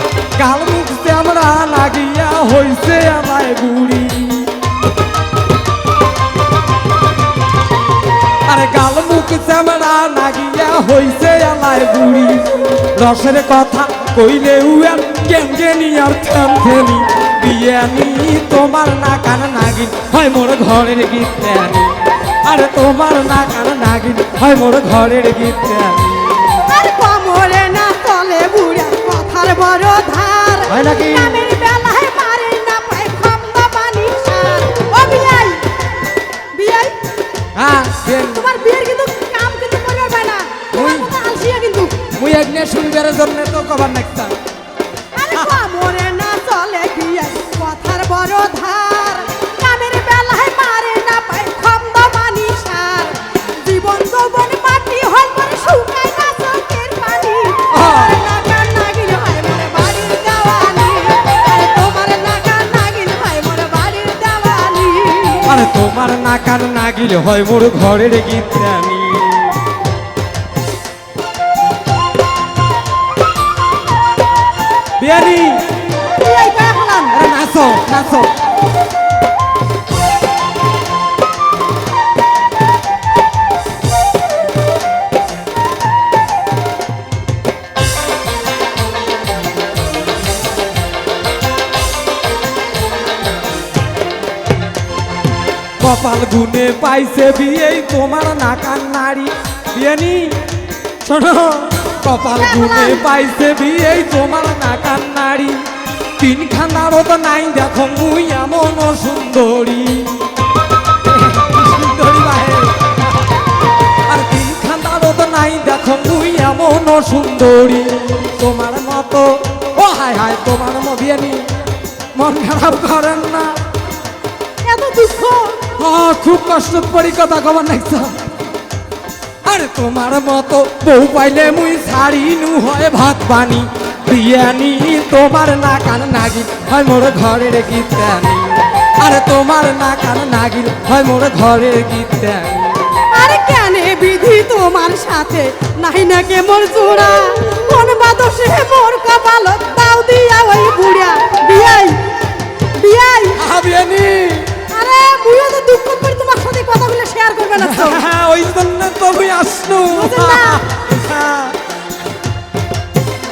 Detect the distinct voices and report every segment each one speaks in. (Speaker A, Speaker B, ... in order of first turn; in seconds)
Speaker A: 0.4-4.5, 8.5-26.6, 30.7-31.4, 37.5-38.5, 40.7-41.1, 42.1-44.4, 57.7-58.1, 65.5-69.6, 75.0-75.7, 77.1-78.3, 95.8-100.4, 101.0-105.6, 106.2-110.3, 111.0-112.8, 114.1-121.5, 122.1-123.5, 125.8-128.2, 129.4-142.8, 153.4-154.6, 157.6-161.6
Speaker B: 26.7-35.7, 36.5-37.0, 38.3-42.0, 45.1-65.6, 76.0-77.2, 102.4-103.0, 124.6-125.6, 143.1-153.4, 154.7-158.0, 159.9-160.6